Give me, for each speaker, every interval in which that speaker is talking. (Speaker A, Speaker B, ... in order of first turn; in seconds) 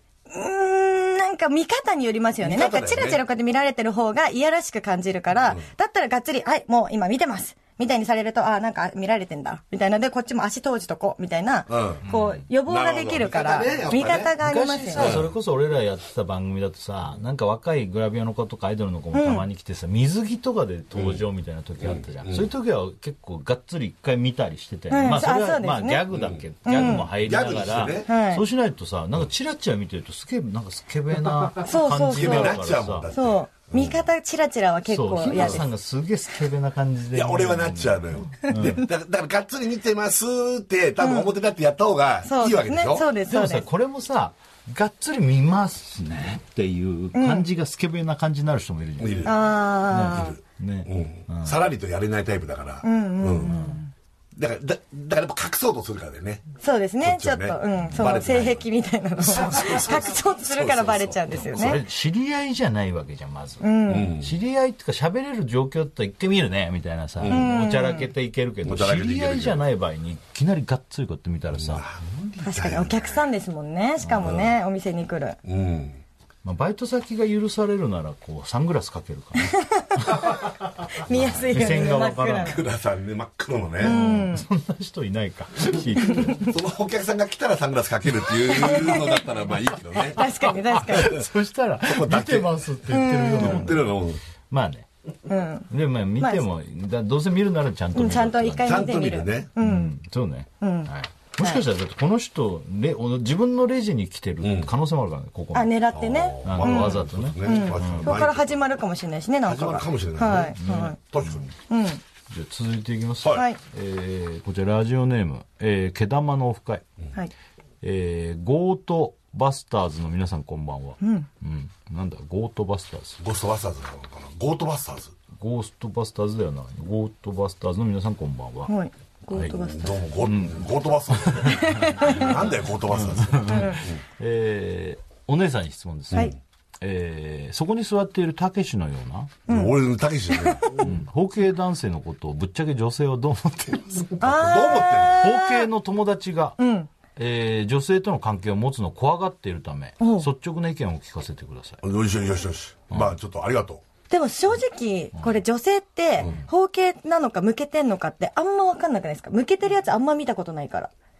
Speaker A: 0.3-15.2, 19.1-19.4, 24.9-26.0, 26.6-27.1, 28.1-28.4, 31.6-35.7, 41.0-41.3, 42.2-43.6, 47.1-47.5, 49.2-50.4, 52.8-53.9, 56.6-61.8, 63.6-64.2, 67.3-68.1, 72.4-75.4, 79.4-80.2, 80.9-82.6, 83.8-84.5, 86.1-86.4, 88.4-89.2, 90.0-91.2, 92.9-93.7, 95.3-96.4, 98.0-99.9, 100.6-100.9, 105.5-111.0, 111.7-112.0, 121.0-121.3, 128.7-130.0, 131.8-132.2, 133.5-133.8, 139.5-140.9, 144.2-145.7, 146.6-146.9, 150.0-150.3, 154.1-160.9
Speaker B: 2.4-3.2, 11.7-12.1, 12.6-14.3, 14.9-15.3, 20.9-21.2, 21.8-22.5, 26.1-28.1, 32.1-34.0, 35.3-35.6, 37.1-43.1, 49.0-53.6, 54.4-56.4, 57.0-58.7, 59.2-61.5, 63.9-64.3, 67.2-67.5, 68.7-69.7, 71.5-73.2, 74.2-74.5, 75.4-76.0, 81.1-84.0, 86.2-90.3, 90.9-91.3, 91.8-92.6, 93.4-94.2, 98.7-99.5, 104.4-104.7, 105.9-108.6, 109.5-111.5, 123.2-125.2, 129.5-134.0, 139.5-140.9, 144.2-145.3, 151.8-153.8
Speaker C: 12.1-12.4, 14.4-33.1, 34.9-38.8, 43.3-51.6, 53.5-53.8, 61.4-71.8, 76.4-80.4, 81.1-82.6, 83.8-86.5, 90.7-94.0, 94.5-94.9, 95.7-98.9, 99.6-105.8, 106.4-108.2, 110.6-111.4, 112.3-116.8, 117.8-123.2, 125.3-128.7, 130.2-132.3, 132.9-139.4, 140.8-144.5, 145.2-146.6, 147.2-151.8